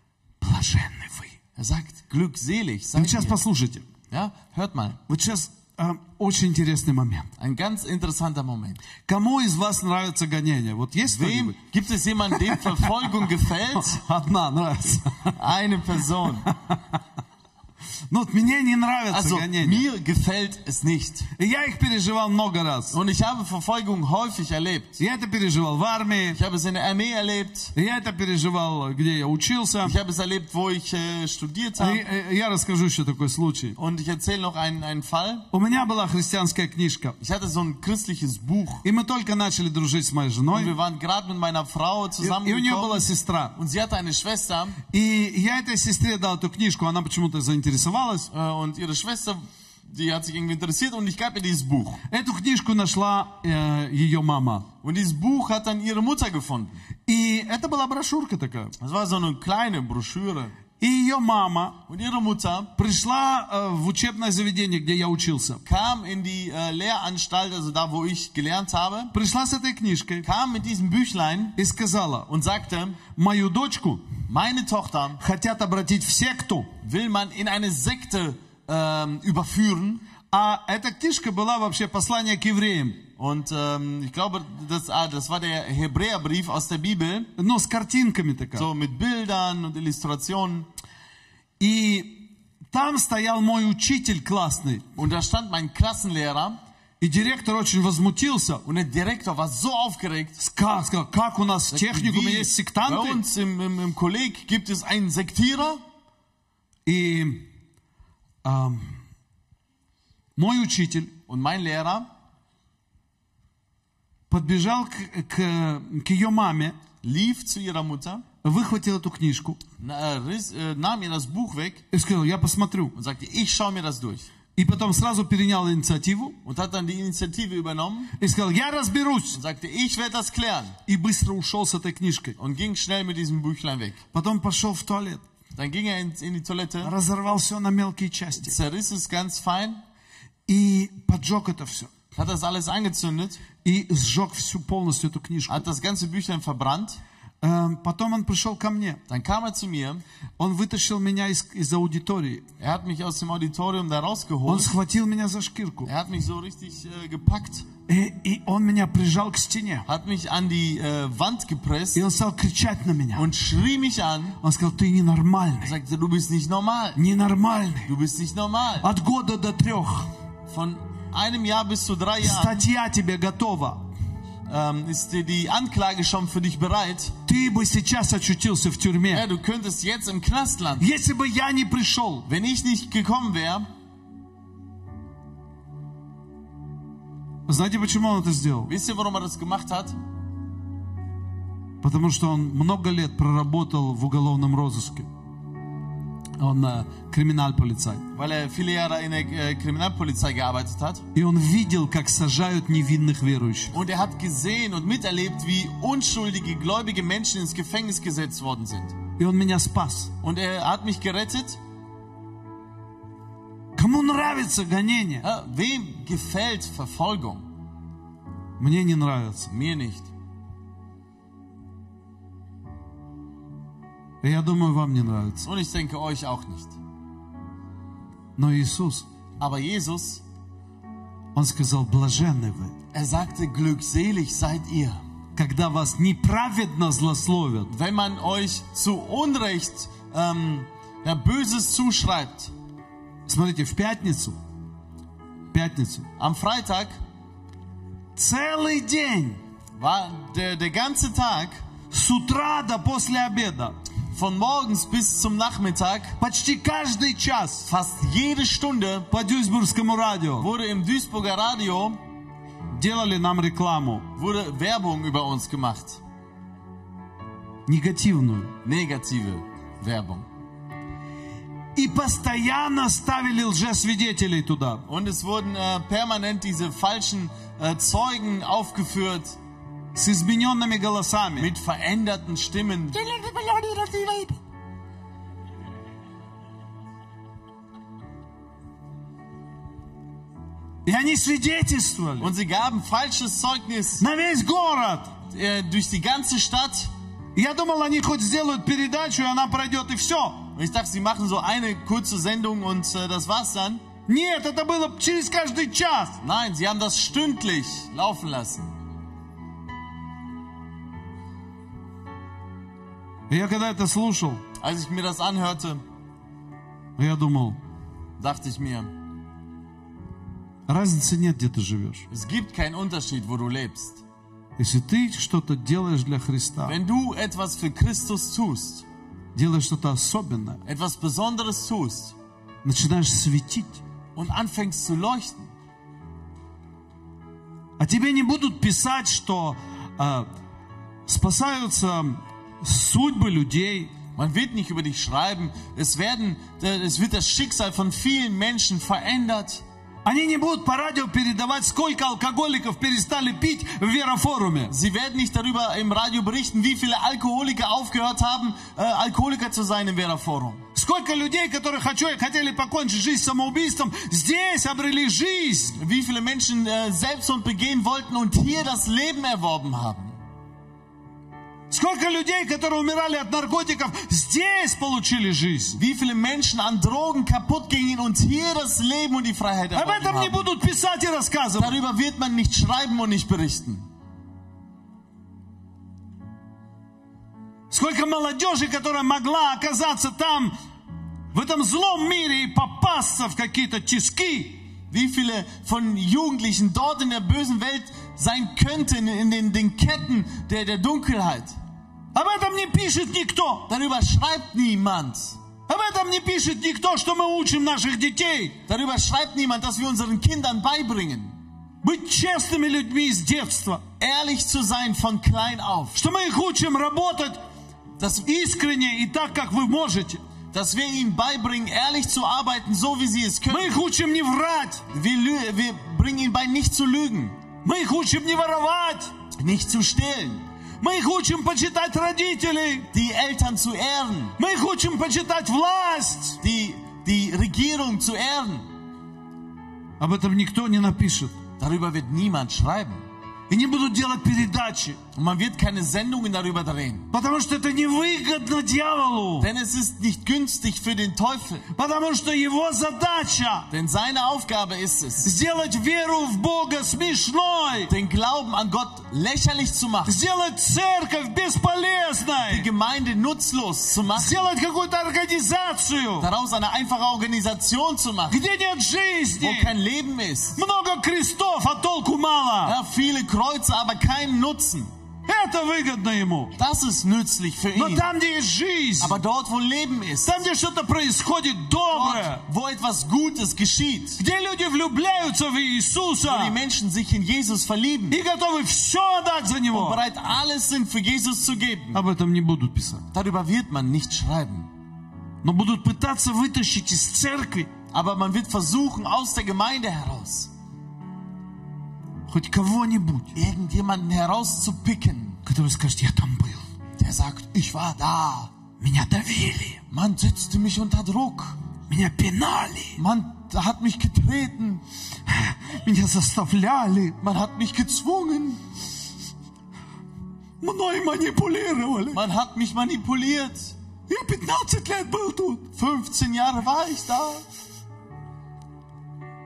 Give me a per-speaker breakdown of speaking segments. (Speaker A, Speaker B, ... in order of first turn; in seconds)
Speaker A: 0.4-1.4, 3.0-3.9, 5.1-7.3, 9.1-11.6, 13.8-15.3, 16.4-16.7, 18.1-19.9, 21.4-23.0, 25.0-26.4, 27.8-29.9, 31.8-33.8, 35.5-37.2, 38.8-40.7, 42.2-43.6, 44.9-48.3, 52.1-54.7, 57.1-58.7, 60.8-61.8, 62.8-65.6, 69.1-70.3, 71.6-72.3, 73.2-74.1, 75.2-76.7, 80.3-83.0, 87.4-88.7, 91.6-94.8, 97.0-98.6, 100.4-103.2, 106.9-107.5, 108.4-109.0, 110.4-111.1, 114.3-116.8, 118.4-119.6, 121.9-122.9, 124.6-126.4, 128.2-129.4, 130.9-132.4, 134.1-135.2, 136.8-138.6, 140.5-141.9, 143.6-145.7, 147.4-149.0, 150.4-152.4, 154.5-155.9, 157.9-159.9, 161.9-163.3, 164.4-165.7, 166.9-167.9, 168.8-170.1, 172.2-173.8, 177.3-179.2, 180.8-182.3, 187.5-188.7, 191.8-195.1, 196.4-198.1, 201.2-203.8, 209.2-210.1, 213.8-215.2, 218.6-219.5, 224.2-225.5, 228.4-229.1, 231.3-232.8, 235.4-237.7, 243.3-244.4, 245.5-246.1, 248.2-249.4, 251.9-253.8, 256.2-257.7, 259.1-260.5, 262.7-264.1, 267.7-268.5, 271.8-274.8, 279.9-281.5, 283.0-284.3, 290.9-292.3, 294.0-295.1, 297.4-300.4, 304.1-306.2, 313.3-314.4, 317.0-317.6, 320.7-322.1, 324.6-326.8, 329.4-330.6, 332.6-333.8, 337.8-340.3, 341.1-343.9, 350.1-354.7, 360.8-365.8, 371.7-375.8, 379.7-381.8, 387.7-390.5, 391.3-394.7, 402.1-403.7, 405.7-408.6, 411.8-413.8, 415.9-417.4, 418.2-420.2, 423.5-424.8, 427.6-429.1, 430.8-432.9, 434.4-436.4, 440.0-441.4, 443.5-445.0, 447.1-449.5, 451.7-453.7, 455.2-457.9, 460.1-462.7, 464.1-466.3, 468.3-469.7, 470.6-472.8, 475.3-476.5, 477.8-479.1, 480.2-482.4, 484.2-486.6, 488.1-490.0, 491.9-493.1, 495.4-497.7, 502.3-503.3, 505.4-506.7, 508.8-509.8, 511.9-513.0, 515.3-517.2, 520.6-522.2, 524.1-525.6
Speaker B: 1.6-3.4, 4.1-5.0, 7.4-8.8, 11.1-14.0, 15.4-16.5, 19.1-21.3, 22.9-25.0, 26.3-27.7, 29.8-32.0, 33.8-35.5, 37.2-38.9, 40.5-44.8, 48.3-52.0, 54.8-56.8, 58.8-60.5, 61.9-62.7, 65.7-69.1, 70.2-71.6, 72.3-73.0, 74.3-75.2, 76.8-80.0, 83.2-87.3, 88.6-90.7, 95.0-96.6, 98.7-100.4, 101.7-105.8, 111.3-112.1, 117.0-118.2, 119.8-121.9, 123.0-124.3, 126.5-128.1, 129.3-130.8, 132.4-134.0, 135.6-136.9, 138.4-139.8, 142.2-143.4, 145.5-147.0, 149.1-150.0, 152.6-154.7, 155.8-157.7, 159.9-162.0, 163.2-164.4, 165.6-167.0, 167.9-168.9, 170.5-172.6, 174.5-177.2, 179.1-180.9, 182.3-183.7, 188.7-190.0, 198.1-201.1, 203.7-209.0, 210.2-211.6, 215.2-217.5, 219.5-220.1, 225.4-226.8, 229.4-230.2, 232.9-235.0, 237.7-242.5, 246.2-247.0, 249.8-251.6, 254.1-256.2, 257.7-259.1, 260.4-262.0, 264.2-266.0, 268.6-270.3, 274.9-279.4, 281.4-283.0, 292.2-294.0, 295.3-296.9, 300.6-303.8, 306.2-308.7, 314.6-315.8, 318.2-318.9, 322.1-324.0, 326.6-328.9, 330.6-332.1, 334.1-335.5, 344.2-349.6, 354.7-360.6, 365.8-370.2, 375.8-380.5, 381.6-383.8, 394.9-401.6, 403.7-405.4, 408.7-411.4, 414.0-416.0, 418.0-418.3, 420.5-423.8, 424.9-427.4, 429.4-430.4, 432.9-434.4, 436.4-438.6, 441.6-443.0, 445.1-447.1, 449.4-451.7, 453.7-455.3, 457.9-460.2, 462.4-464.4, 466.2-468.4, 469.4-470.6, 472.6-474.9, 476.6-478.1, 479.0-480.5, 481.9-484.2, 486.3-488.2, 489.7-492.0, 493.1-494.7, 497.9-500.5, 503.4-505.4, 507.0-508.5, 509.9-511.6, 513.0-514.8, 517.2-518.6, 522.1-523.8, 525.8-527.4